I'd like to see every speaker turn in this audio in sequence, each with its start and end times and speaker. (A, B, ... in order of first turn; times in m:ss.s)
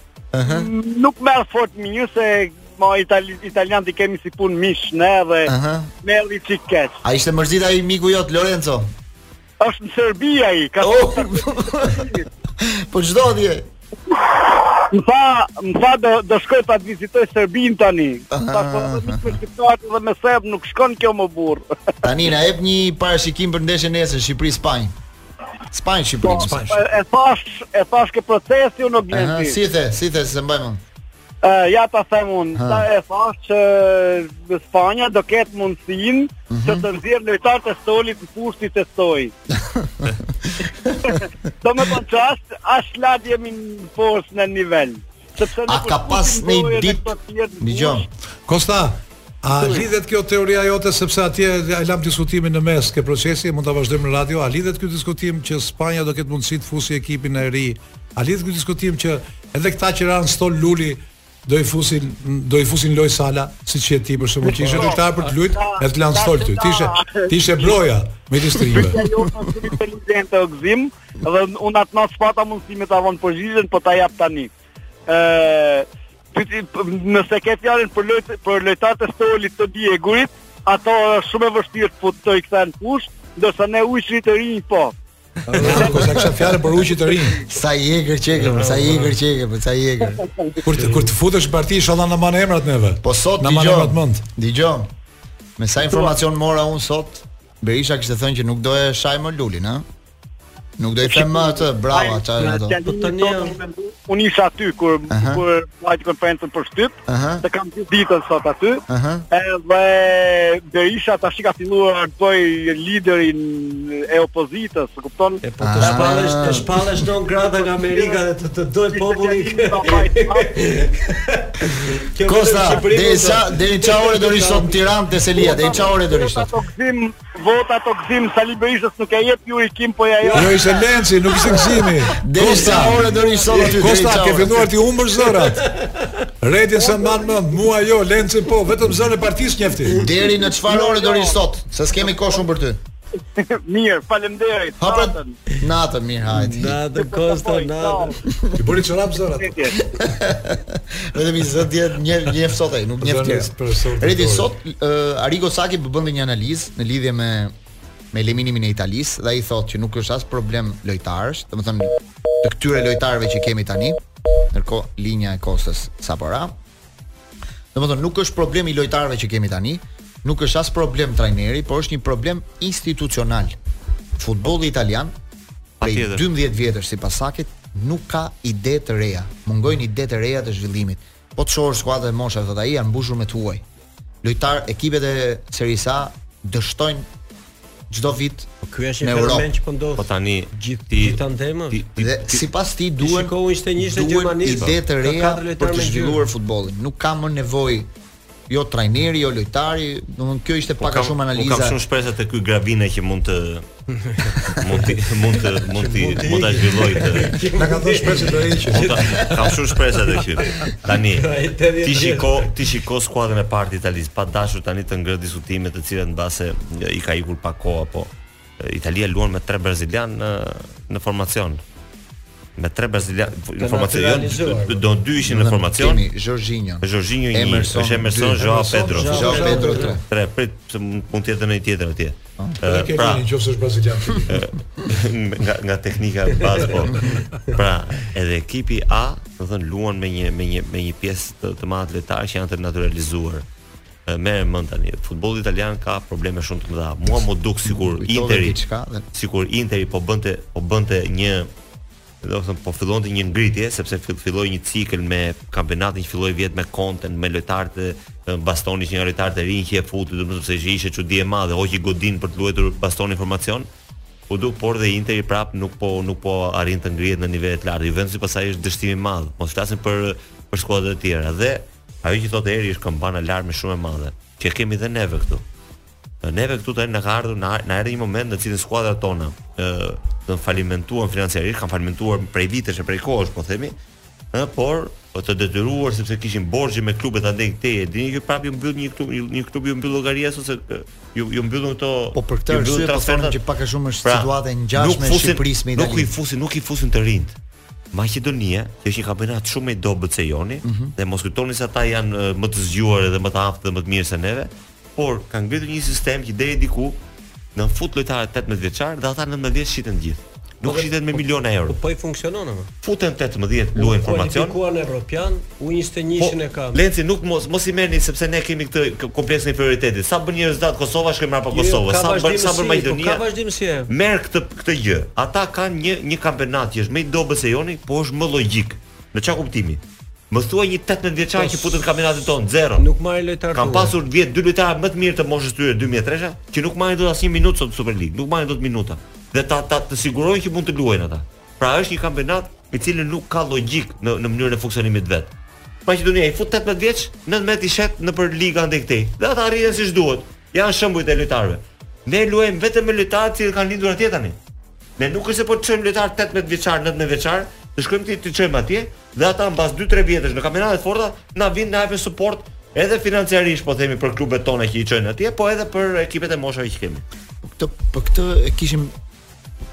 0:00.3-0:00.7 A
0:00.4-0:05.5 B
0:05.5-0:05.9 A
0:06.0-0:07.0 B
0:07.0-0:08.9 A
0:09.6-0:12.3 B
0:10.8-0:12.0 A
0:12.6-0:13.7 A
0:14.1-0:21.7 B
0:18.3-0:19.4 A
0:22.0-0:24.9 A
0:25.7-0:26.6 A
0:26.2-0:29.6 B
0:26.3-0:26.8 C
0:29.1-0:30.8 A
0:31.4-0:39.3 B
0:32.6-0:32.9 A
0:36.5-0:36.8 A
0:39.5-0:41.1 A
0:41.0-0:48.1 B
0:45.7-0:48.1 A
0:48.5-1:09.0 C
1:04.4-1:07.8 B
1:08.6-1:14.5 B
1:08.7-1:09.5 A
1:15.1-1:25.0 B
1:25.5-1:27.5 C
1:25.6-1:26.0 A
1:25.6-1:26.6 B
1:27.4-1:30.2 A
1:28.4-1:29.1 D
1:30.2-1:30.6 B
1:30.6-1:34.2 C
1:33.0-1:34.9 A
1:35.6-1:39.8 A
1:40.8-1:42.8 A
1:41.1-1:55.4 B
1:42.8-1:43.6 D
1:45.1-1:45.4 A
1:47.1-1:47.4 A
1:48.9-1:49.3 A
1:55.4-2:04.7 D
1:55.6-1:56.7 A
1:57.8-1:58.2 B
1:58.9-2:00.7 B
2:02.2-2:06.5 A
2:05.4-2:13.8 B
2:10.3-2:10.6 D
2:10.3-2:13.1 C
2:12.2-2:14.7 A
2:13.6-2:15.8 C
2:15.6-2:16.2 D
2:16.4-2:20.0 C
2:16.8-2:17.5 B
2:19.9-2:22.8 A
2:20.0-2:21.4 B
2:22.0-2:22.4 B
2:23.4-2:25.4 B
2:24.8-2:26.8 A
2:26.3-2:28.2 D
2:26.9-2:28.2 B
2:28.5-2:29.7 C
2:29.4-2:29.8 B
2:29.8-2:37.5 A
2:33.0-2:34.5 C
2:38.1-2:44.0 A
2:44.5-2:46.5 A
2:47.7-2:53.6 A
2:54.2-2:55.1 A
2:55.8-2:56.3 E
2:55.8-3:03.6 A
3:04.2-3:07.1 A
3:07.9-3:08.5 A
3:08.6-3:11.8 D
3:09.0-3:09.5 A
3:10.0-3:12.4 E
3:12.0-3:17.9 A
3:13.0-3:16.3 D
3:14.5-3:14.8 E
3:18.5-3:21.8 A
3:20.8-3:23.7 E
3:24.0-3:24.9 D
3:24.3-3:27.4 E
3:25.7-3:29.6 D
3:27.4-3:29.3 C
3:28.7-3:41.6 E
3:30.4-3:32.5 D
3:42.6-3:46.0 E
3:43.6-3:44.8 D
3:45.2-3:50.0 A
3:46.8-3:53.2 E
3:48.4-3:50.0 C
3:48.9-3:50.0 D
3:52.6-3:54.5 C
3:54.3-4:03.4 E
4:04.1-4:08.6 E
4:07.7-4:09.0 A
4:09.1-4:11.5 E
4:12.2-4:23.7 E
4:24.3-4:35.4 E
4:36.2-4:43.8 E
4:44.3-4:53.4 E
4:52.2-4:56.1 A
4:54.0-4:57.4 E
4:57.9-5:07.0 E
5:00.6-5:00.9 A
5:07.6-5:11.8 E
5:10.6-5:12.7 D
5:12.8-5:14.6 E
5:13.8-5:16.8 D
5:16.2-5:23.2 E
5:21.5-5:23.9 D
5:23.9-5:32.9 E
5:31.3-5:31.8 D
5:32.8-5:34.0 D
5:33.5-5:45.3 E
5:45.9-5:54.4 E
5:55.0-6:07.0 E
6:07.4-6:08.9 A